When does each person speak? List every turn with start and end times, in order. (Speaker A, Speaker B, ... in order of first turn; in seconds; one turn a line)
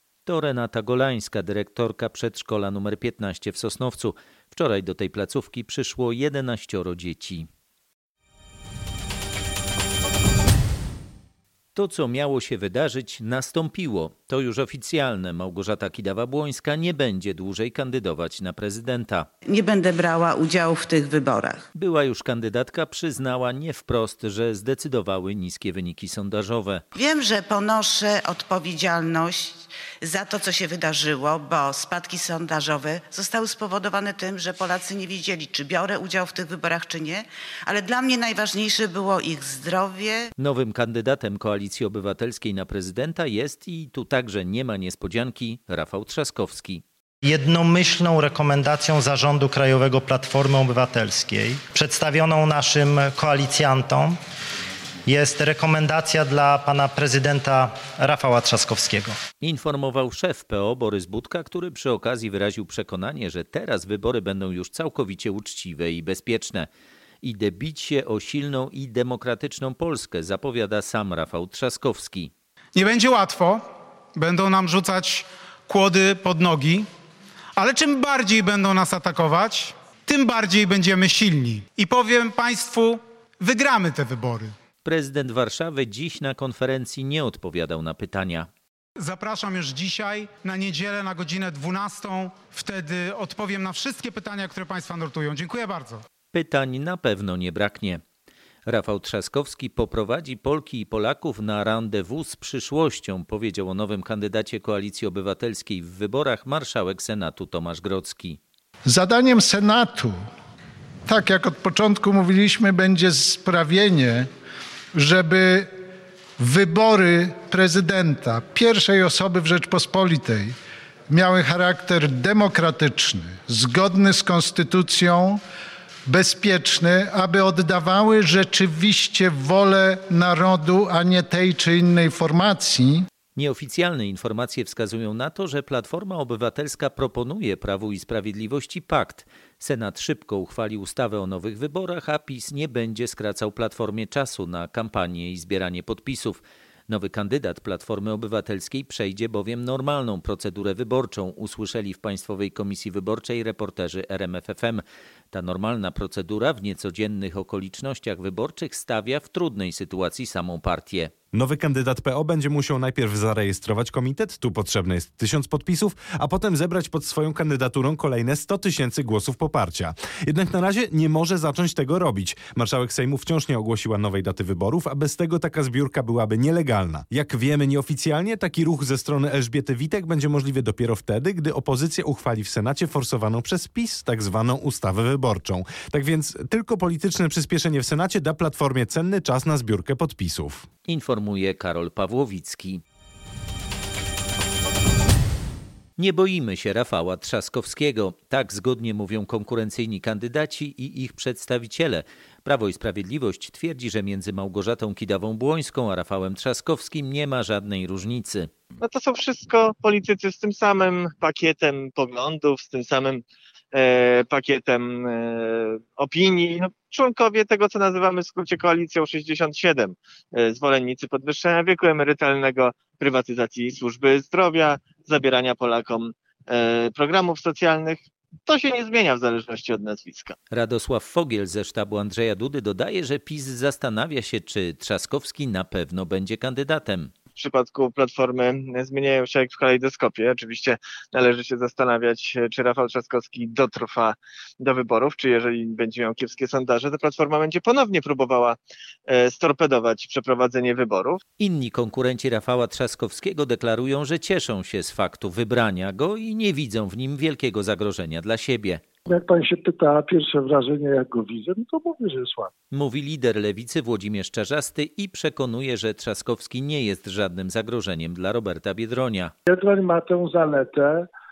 Speaker A: 0.3-7.5
Speaker A: 11.7-19.3
Speaker B: 19.5-21.6
Speaker A: 21.7-26.8
Speaker B: 26.9-40.3
Speaker A: 40.4-46.8
Speaker C: 47.2-54.2
Speaker C: 55.0-59.2
Speaker A: 59.4-66.7
Speaker A: 67.2-72.3
Speaker D: 72.8-76.9
Speaker D: 77.6-84.5
Speaker A: 84.8-88.5
Speaker D: 89.0-96.0
Speaker A: 96.3-98.0
Speaker A: 98.7-108.4
Speaker E: 108.9-110.1
Speaker E: 111.0-114.3
Speaker E: 114.9-115.7
Speaker E: 116.4-120.5
Speaker E: 121.1-125.4
Speaker E: 126.1-133.0
Speaker A: 133.3-161.1
Speaker F: 161.3-190.7
Speaker A: 190.9-192.8
Speaker A: 196.0-208.5
Speaker G: 208.8-230.3
Speaker A: 230.5-237.1
Speaker G: 237.3-251.2
Speaker A: 251.4-258.8
Speaker H: 259.1-262.5
Speaker A: 262.7-269.3
Speaker H: 269.5-270.9